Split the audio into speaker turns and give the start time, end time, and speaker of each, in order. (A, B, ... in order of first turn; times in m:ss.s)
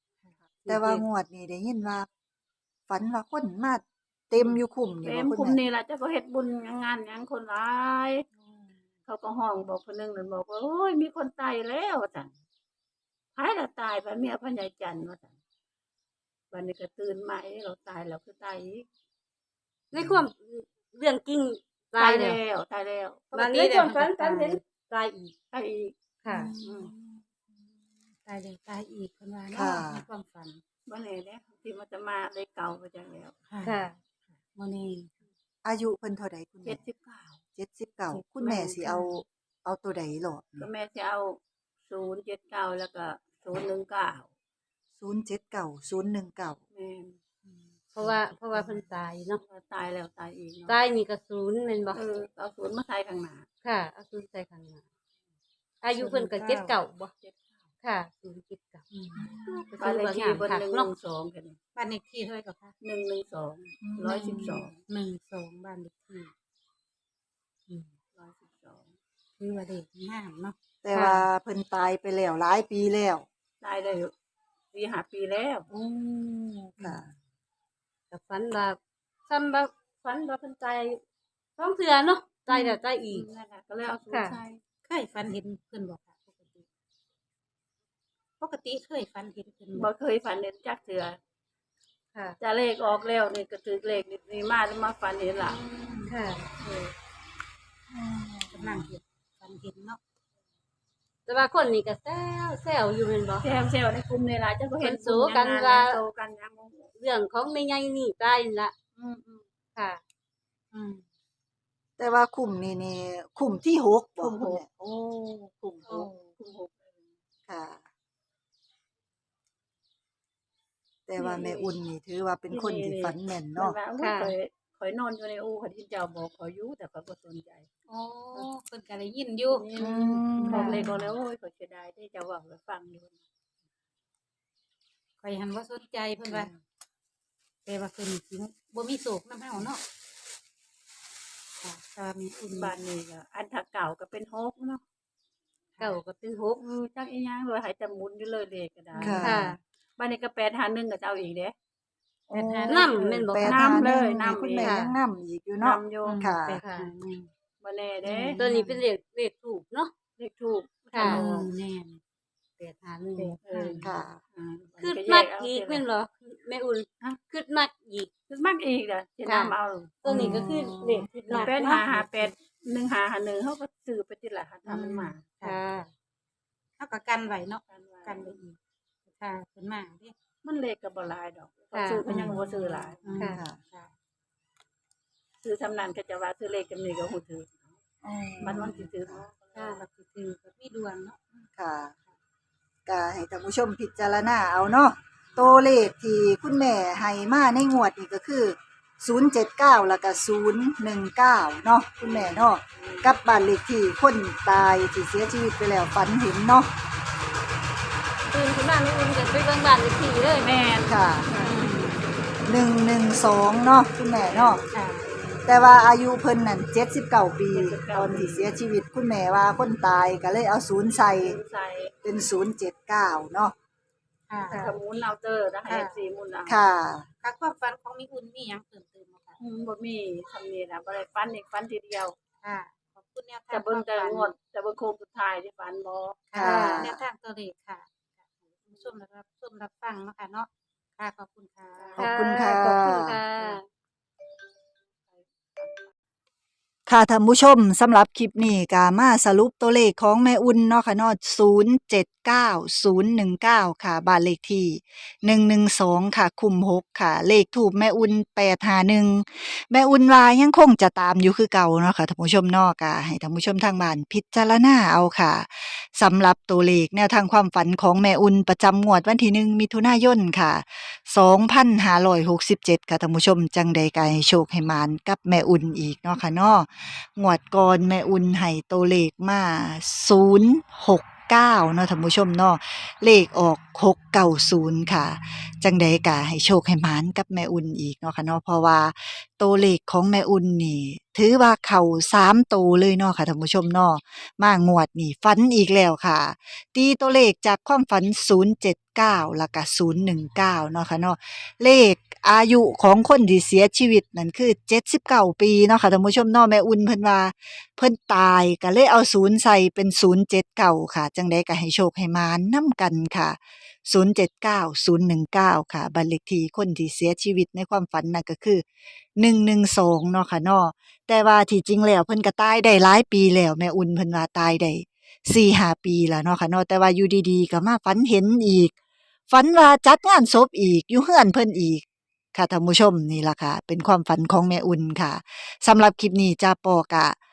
0:00.2-0:01.0 A
0:00.7-0:02.1 B
0:02.9-0:05.6 B
0:04.4-0:04.6 A
0:05.0-0:08.3 C
0:08.4-0:08.8 A
0:09.0-0:12.3 C
0:13.4-0:15.3 C
0:16.5-0:18.9 C
0:19.9-0:22.4 D
0:19.9-0:20.2 B
0:22.0-0:23.4 C
0:23.3-0:24.6 A
0:23.3-0:25.3 D
0:25.5-0:26.9 C
0:26.2-0:26.5 D
0:26.3-0:27.2 A
0:28.2-0:30.6 A
0:29.5-0:30.0 B
0:30.8-0:33.4 C
0:33.5-0:33.8 A
0:33.6-0:34.0 D
0:34.5-0:35.1 A
0:35.6-0:36.8 B
0:36.6-0:37.4 C
0:37.5-0:40.7 B
0:38.3-0:38.8 C
0:38.8-0:39.2 A
0:40.6-0:44.3 C
0:45.0-0:46.6 B
0:46.7-0:47.2 C
0:47.4-0:48.8 A
0:47.9-0:49.4 D
0:49.4-0:50.8 C
0:50.7-0:52.0 D
0:51.9-0:53.5 C
0:53.6-0:54.8 D
0:55.8-0:57.1 D
0:56.0-0:56.8 A
0:57.2-0:57.7 C
0:57.8-0:58.8 D
0:58.9-0:59.4 A
0:59.2-0:59.7 B
0:59.5-1:00.9 D
0:59.8-1:01.6 C
1:01.8-1:02.7 A
1:02.8-1:04.8 C
1:03.8-1:04.5 B
1:04.2-1:06.3 A
1:07.7-1:07.9 A
1:08.1-1:08.9 C
1:09.4-1:10.6 A
1:10.8-1:13.2 B
1:10.9-1:11.2 D
1:13.6-1:14.1 C
1:14.7-1:15.7 C
1:15.7-1:17.1 B
1:18.1-1:21.0 D
1:21.6-1:23.3 D
1:22.5-1:24.6 C
1:24.1-1:24.4 D
1:24.8-1:26.6 A
1:28.4-1:29.9 A
1:29.7-1:31.2 C
1:32.4-1:35.6 C
1:35.4-1:36.1 A
1:36.0-1:36.5 D
1:36.6-1:36.9 C
1:37.9-1:38.9 B
1:38.5-1:40.0 A
1:41.3-1:43.5 D
1:43.4-1:46.9 C
1:44.8-1:46.0 D
1:47.0-1:48.7 D
1:49.0-1:49.4 C
1:49.7-1:50.0 D
1:50.7-1:51.0 A
1:52.0-1:56.1 B
1:54.2-1:54.6 C
1:55.9-1:56.3 A
1:56.3-1:57.1 C
1:57.5-1:57.8 B
2:01.1-2:03.8 B
2:01.2-2:01.7 C
2:02.5-2:07.7 C
2:04.0-2:04.3 D
2:07.9-2:09.7 A
2:09.5-2:13.2 C
2:09.8-2:10.9 B
2:10.3-2:11.1 A
2:15.2-2:16.5 A
2:17.6-2:19.8 A
2:21.6-2:22.7 A
2:22.5-2:24.8 C
2:25.8-2:26.6 D
2:26.6-2:29.4 C
2:28.9-2:29.5 A
2:29.0-2:29.5 B
2:29.2-2:29.6 D
2:30.0-2:31.5 C
2:32.3-2:36.6 B
2:32.3-2:33.0 A
2:32.7-2:33.9 D
2:33.0-2:34.8 C
2:34.6-2:35.0 D
2:35.6-2:36.2 C
2:36.0-2:37.3 A
2:36.6-2:36.9 D
2:37.6-2:38.4 C
2:38.0-2:38.8 A
2:38.4-2:39.9 D
2:40.2-2:41.4 C
2:40.9-2:41.2 D
2:41.0-2:42.0 A
2:41.1-2:41.5 B
2:42.6-2:43.4 D
2:43.2-2:43.9 A
2:43.4-2:45.8 C
2:43.8-2:44.2 B
2:44.8-2:48.1 D
2:48.3-2:50.0 C
2:49.2-2:51.8 D
2:50.1-2:51.1 B
2:50.1-2:50.4 A
2:51.3-2:52.3 A
2:51.3-2:55.3 C
2:54.6-2:55.6 A
2:55.4-2:55.9 D
2:56.8-3:00.1 A
2:57.7-2:58.4 C
3:00.4-3:03.0 C
3:01.7-3:03.4 D
3:02.1-3:02.4 A
3:02.1-3:02.3 B
3:03.0-3:03.9 A
3:03.2-3:03.6 B
3:05.4-3:07.7 C
3:08.0-3:09.2 B
3:08.4-3:09.7 C
3:08.5-3:08.8 A
3:09.6-3:09.8 D
3:09.6-3:11.2 A
3:11.6-3:11.9 B
3:12.8-3:26.7 B
3:22.0-3:23.1 C
3:28.3-3:30.5 D
3:30.3-3:31.0 C
3:30.8-3:31.3 B
3:31.4-3:32.1 A
3:32.4-3:34.6 B
3:34.2-3:34.6 C
3:34.7-3:35.2 A
3:35.4-3:41.4 B
3:37.5-3:38.6 C
3:41.2-3:41.9 C
3:42.0-3:43.5 B
3:44.3-3:44.8 A
3:44.5-3:46.6 C
3:45.7-3:46.0 A
3:46.4-3:47.1 B
3:47.2-3:49.4 A
3:49.4-3:52.2 C
3:52.4-3:54.3 A
3:53.5-3:56.3 C
3:56.3-4:02.0 A
3:56.3-3:57.0 B
3:56.4-3:56.9 D
3:58.6-3:58.9 C
4:01.8-4:02.5 C
4:02.0-4:03.2 B
4:02.0-4:03.6 D
4:05.1-4:05.9 C
4:06.9-5:18.6 B
5:19.2-5:28.7 B
5:29.3-5:31.8 B
5:32.3-5:37.2 B